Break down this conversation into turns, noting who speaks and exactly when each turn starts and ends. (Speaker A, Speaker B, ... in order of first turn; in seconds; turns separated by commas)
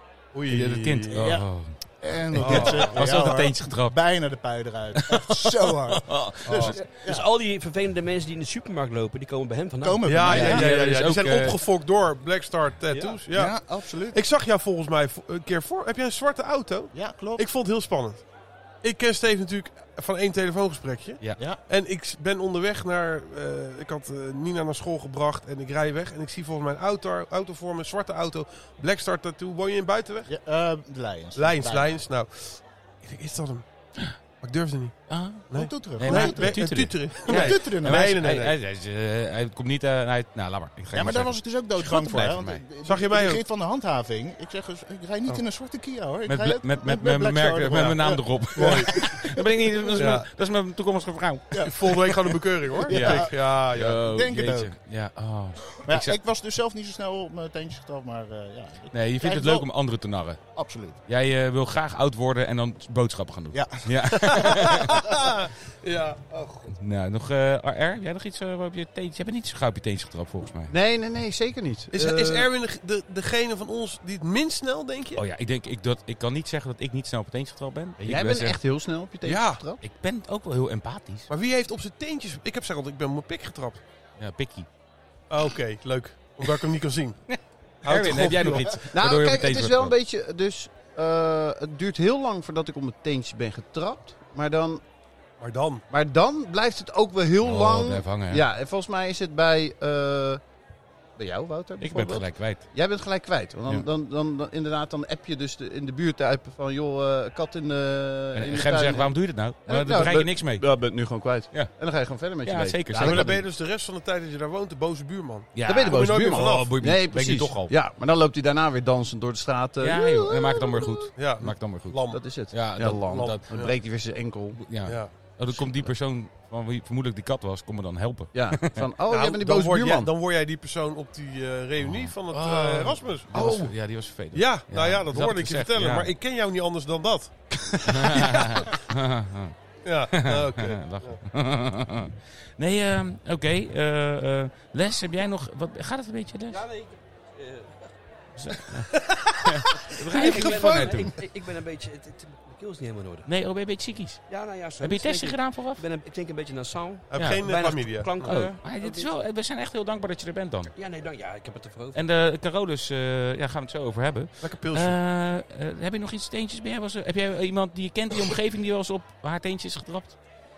Speaker A: 0.3-1.2, Speaker B: 0.5-1.7, Speaker C: 1.1-1.5, Speaker C: 2.0-7.3, Speaker B: 2.3-4.0, Speaker A: 2.4-3.1, Speaker B: 5.0-6.8, Speaker A: 6.5-6.8, Speaker D: 6.6-10.0, Speaker C: 9.8-10.8, Speaker A: 10.1-18.2, Speaker B: 10.3-11.6, Speaker D: 12.9-13.2, Speaker C: 13.3-14.2, Speaker C: 16.9-17.4, Speaker A: 18.8-30.3, Speaker C: 30.3-32.0, Speaker A: 31.4-33.6, Speaker A: 34.4-35.0, Speaker B: 35.1-42.7, Speaker A: 35.5-38.5, Speaker C: 35.5-38.2, Speaker C: 40.9-49.4, Speaker A: 42.8-43.4, Speaker B: 46.3-51.7, Speaker A: 48.5-48.9, Speaker A: 50.0-50.3, Speaker C: 51.5-54.7, Speaker A: 51.6-54.0, Speaker B: 52.9-56.2, Speaker C: 55.9-59.7, Speaker B: 58.9-60.4, Speaker C: 60.5-61.0, Speaker B: 61.1-65.0, Speaker C: 63.5-65.0, Speaker A: 64.3-66.6, Speaker B: 66.7-70.8, Speaker E: 70.7-72.5, Speaker A: 71.9-75.2, Speaker B: 75.2-78.6, Speaker E: 78.0-79.8, Speaker A: 79.2-79.6, Speaker B: 79.8-81.3, Speaker A: 81.3-83.8, Speaker B: 84.2-84.7, Speaker A: 85.3-87.2, Speaker B: 87.3-89.9, Speaker A: 87.8-88.8, Speaker E: 88.9-94.8, Speaker A: 95.4-95.8, Speaker E: 95.9-100.4, Speaker B: 97.4-98.4, Speaker E: 101.2-109.2, Speaker B: 101.8-102.7, Speaker B: 108.3-110.7, Speaker E: 109.7-113.4, Speaker B: 111.5-111.8, Speaker B: 112.4-113.4, Speaker A: 113.0-116.8, Speaker B: 115.5-117.7, Speaker E: 115.7-121.1, Speaker B: 119.8-123.5, Speaker A: 121.2-122.2, Speaker E: 122.1-124.8, Speaker A: 123.2-123.7, Speaker B: 124.5-128.9, Speaker A: 124.8-125.3, Speaker E: 125.5-125.8, Speaker E: 128.3-130.1, Speaker A: 129.1-133.8, Speaker B: 131.8-136.1, Speaker A: 134.3-138.6, Speaker B: 137.8-139.6, Speaker A: 139.8-141.2, Speaker B: 140.1-146.6, Speaker D: 146.5-147.9, Speaker B: 148.4-151.1, Speaker A: 148.9-151.1, Speaker D: 150.1-153.3, Speaker B: 153.3-154.2, Speaker D: 154.3-159.1, Speaker B: 154.8-155.8, Speaker A: 157.1-158.6, Speaker B: 157.1-157.4, Speaker B: 158.1-160.7, Speaker D: 160.7-162.0, Speaker B: 161.9-170.2, Speaker A: 164.4-165.0